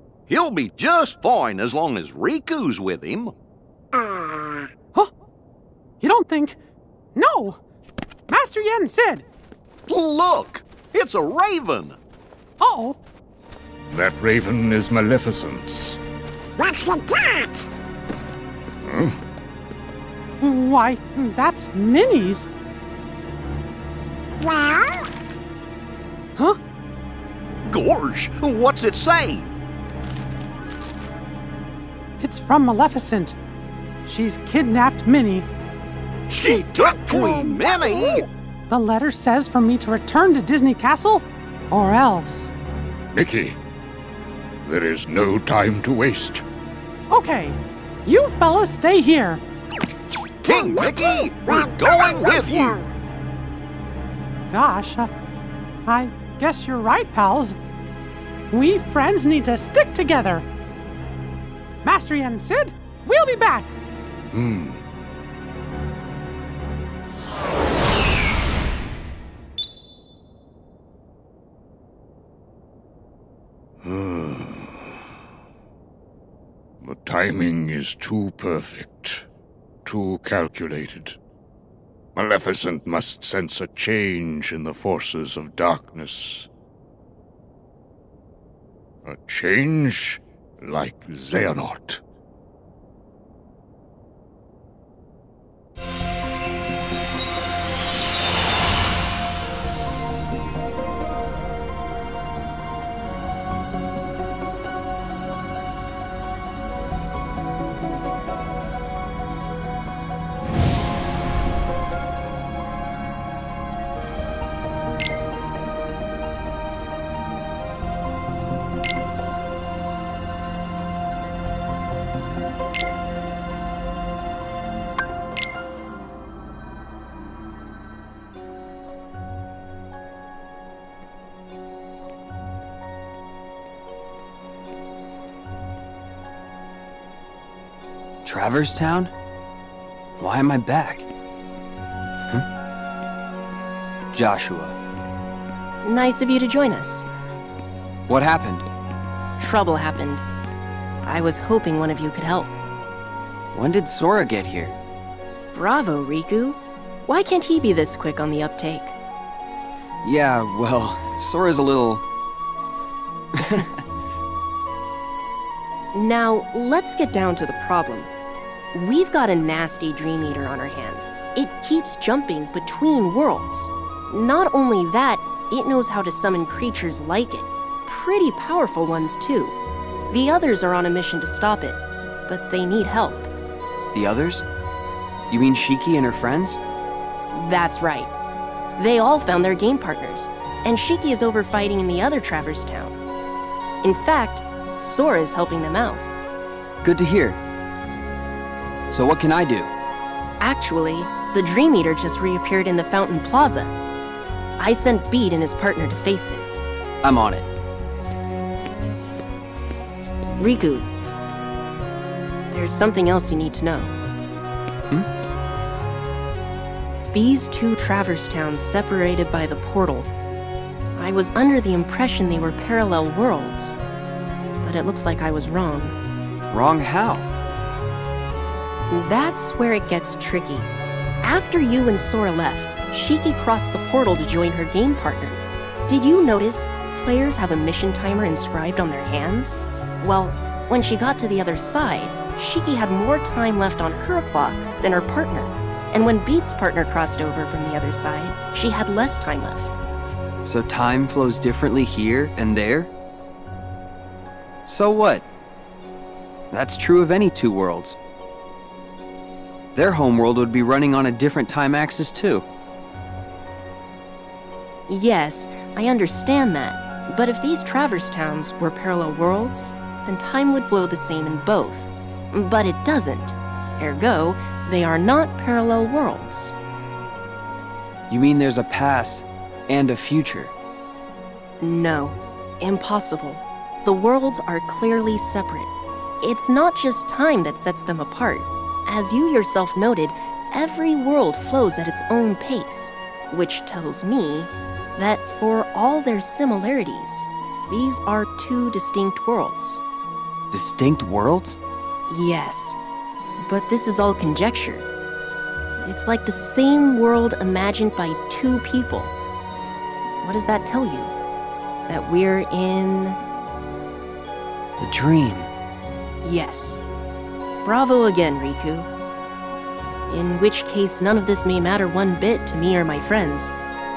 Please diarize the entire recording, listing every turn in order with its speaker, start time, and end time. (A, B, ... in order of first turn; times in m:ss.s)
0:00.3-0:03.3 A
0:04.0-0:04.6 B
0:06.0-0:06.6 C
0:07.2-0:07.6 C
0:08.3-0:09.2 C
0:09.9-0:12.0 A
0:12.6-0:13.0 C
0:13.9-0:16.0 D
0:16.6-0:17.7 B
0:18.9-0:19.2 D
0:20.4-0:22.5 C
0:24.4-0:25.0 B
0:27.7-0:29.5 A
0:32.2-0:33.4 C
0:34.1-0:35.5 C
0:36.3-0:38.3 A
0:38.7-0:42.5 C
0:43.1-0:43.6 D
0:44.6-0:46.4 D
0:47.1-0:49.4 C
0:50.4-0:52.9 A
0:54.5-0:55.1 C
0:55.9-0:57.6 C
0:58.5-1:00.4 C
1:01.8-1:03.7 C
1:04.3-1:04.8 D
1:13.8-1:14.8 D
1:16.8-1:19.3 D
1:19.8-1:21.2 D
1:22.2-1:26.5 D
1:29.1-1:32.0 D
2:18.2-2:19.1 E
2:20.2-2:21.1 E
2:24.1-2:24.8 E
2:25.8-2:27.1 F
2:28.1-2:28.7 E
2:29.4-2:30.2 F
2:31.1-2:32.6 F
2:33.5-2:34.8 E
2:35.5-2:39.0 F
2:40.0-2:42.0 E
2:43.4-2:43.7 E
2:45.9-2:48.1 F
2:48.7-2:59.6 F
3:00.1-3:03.3 F
3:03.9-3:04.4 E
3:05.3-3:06.6 E
3:07.3-3:08.1 F
3:08.8-3:13.0 F
3:13.8-3:16.0 F
3:16.8-3:17.4 E
3:18.9-3:19.7 E
3:20.4-3:23.7 F
3:24.6-3:26.5 F
3:27.0-3:27.5 E
3:30.4-3:30.9 F
3:32.5-3:33.9 F
3:37.1-3:40.1 F
3:41.0-3:43.8 F
3:44.6-3:45.9 F
3:46.5-3:47.3 E
3:48.9-3:50.7 F
3:51.2-4:09.8 F
4:10.4-4:12.9 E
4:14.7-4:15.3 E
4:16.5-4:18.0 E
4:19.8-4:22.4 E
4:24.9-4:36.6 F
4:38.1-4:40.5 E
4:41.6-4:59.8 F
5:00.5-5:01.6 E
5:02.1-5:02.8 F
5:03.4-5:04.9 F
5:05.8-5:09.1 F
5:10.2-5:11.1 F
5:11.9-5:13.2 F
5:14.8-5:15.5 E
5:16.2-5:16.8 F
5:17.6-5:18.9 F
5:20.1-5:23.5 F